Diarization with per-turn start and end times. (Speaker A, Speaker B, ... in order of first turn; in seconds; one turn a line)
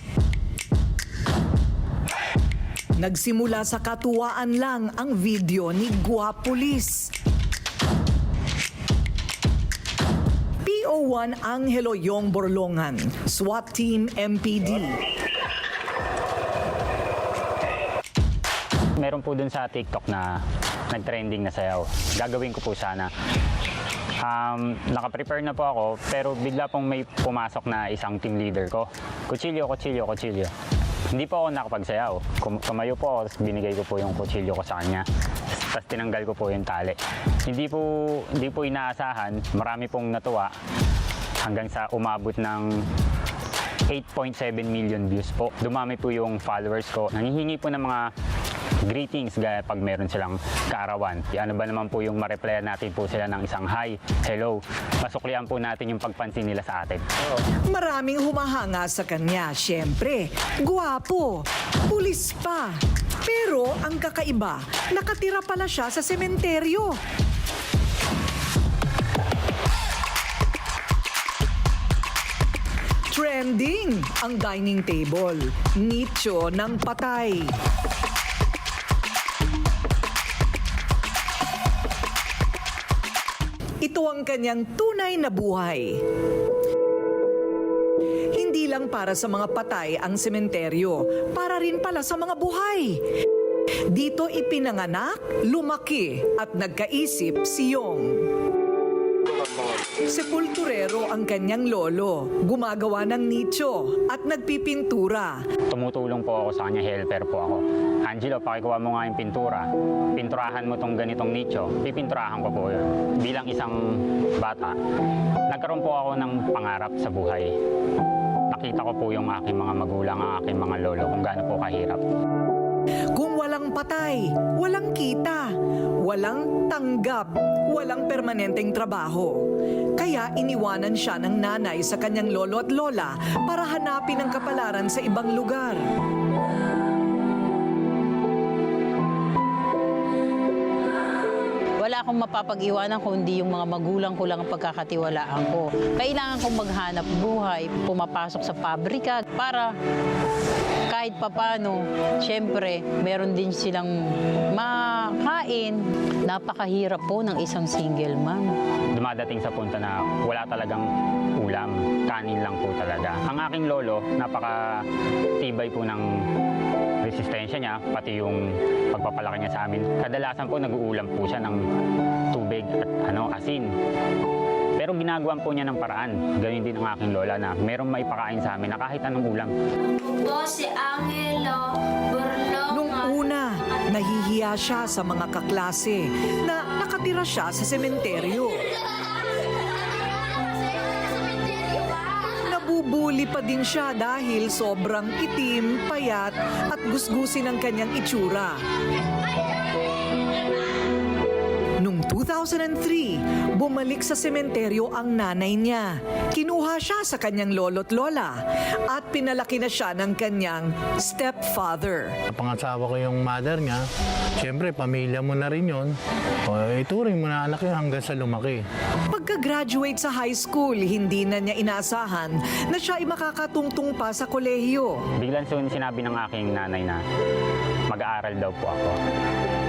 Speaker A: 3.0-7.1
Speaker A: 10.6-15.0
Speaker B: 19.0-20.3
Speaker B: 20.9-23.1
Speaker B: 24.2-30.5
Speaker B: 31.1-35.0
Speaker B: 35.7-40.5
Speaker B: 41.4-42.7
Speaker B: 43.9-48.0
Speaker B: 48.9-57.0
Speaker A: 57.7-67.0
Speaker A: 73.1-77.5
Speaker A: 83.8-86.0
Speaker A: 88.3-93.0
Speaker A: 93.9-98.3
Speaker A: 100.1-105.4
Speaker B: 105.7-113.8
Speaker B: 114.4-114.8
Speaker B: 115.5-117.5
Speaker B: 118.5-122.0
Speaker A: 123.1-125.5
Speaker A: 126.0-135.9
Speaker C: 141.8-149.8
Speaker C: 150.9-158.6
Speaker B: 158.9-160.9
Speaker B: 161.4-164.8
Speaker B: 165.4-166.0
Speaker B: 167.0-168.4
Speaker B: 168.9-171.6
Speaker B: 172.3-173.7
Speaker B: 174.8-179.5
Speaker D: 179.9-182.7
Speaker A: 182.7-188.7
Speaker A: 192.2-198.6
Speaker A: 201.8-212.2
Speaker E: 212.3-213.9
Speaker E: 214.4-218.7
Speaker A: 219.1-225.0
Speaker B: 225.2-227.0
Speaker B: 227.9-229.0